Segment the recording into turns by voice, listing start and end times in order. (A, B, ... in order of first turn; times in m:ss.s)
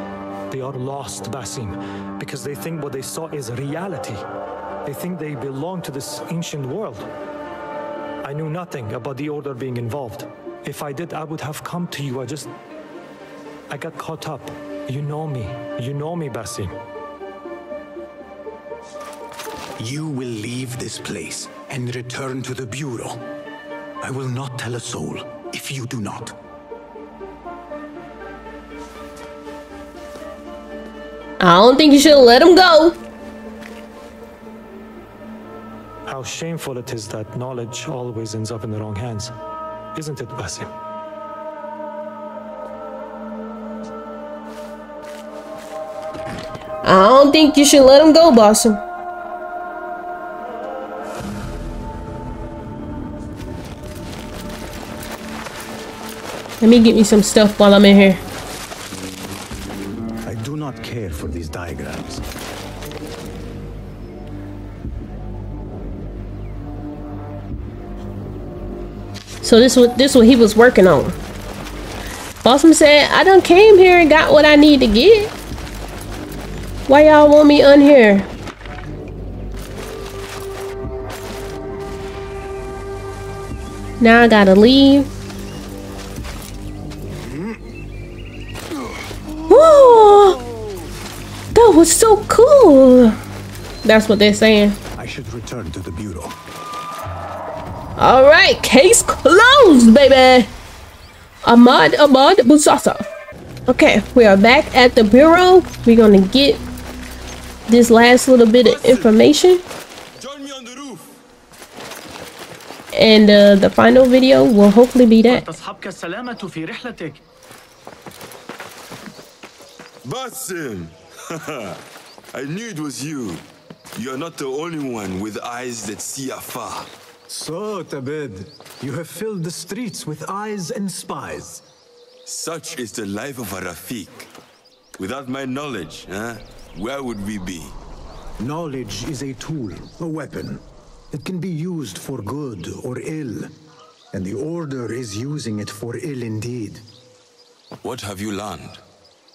0:00.5-0:04.2 A
0:04.8-0:07.1 A
0:08.2-0:12.5 A
0:13.7-0:16.8 A
0:19.8-0:23.2 B
0:24.0-0:26.3 B
0:31.4-0:33.0 C
0:36.0-0:39.3 A
0:39.9-0:40.7 A
0:46.8-0:48.8 C
0:56.6-0:58.2 C
1:00.2-1:02.2 B
1:09.4-1:11.1 C
1:12.4-1:15.3 C
1:16.9-1:18.3 C
1:24.0-1:25.1 C
1:29.5-1:30.4 C
1:31.5-1:33.2 C
1:33.8-1:34.8 C
1:35.0-1:36.4 B
1:38.0-1:40.5 C
1:41.4-1:43.1 C
1:43.7-1:46.6 C
1:47.7-1:49.6 C
1:48.6-1:49.2 D
1:50.2-1:51.1 D
1:52.9-1:55.4 C
2:00.0-2:01.8 D
2:02.3-2:03.4 D
2:03.9-2:06.9 D
2:07.3-2:11.6 B
2:12.2-2:14.3 D
2:15.0-2:17.8 D
2:18.4-2:23.6 B
2:24.1-2:26.8 B
2:27.8-2:28.8 D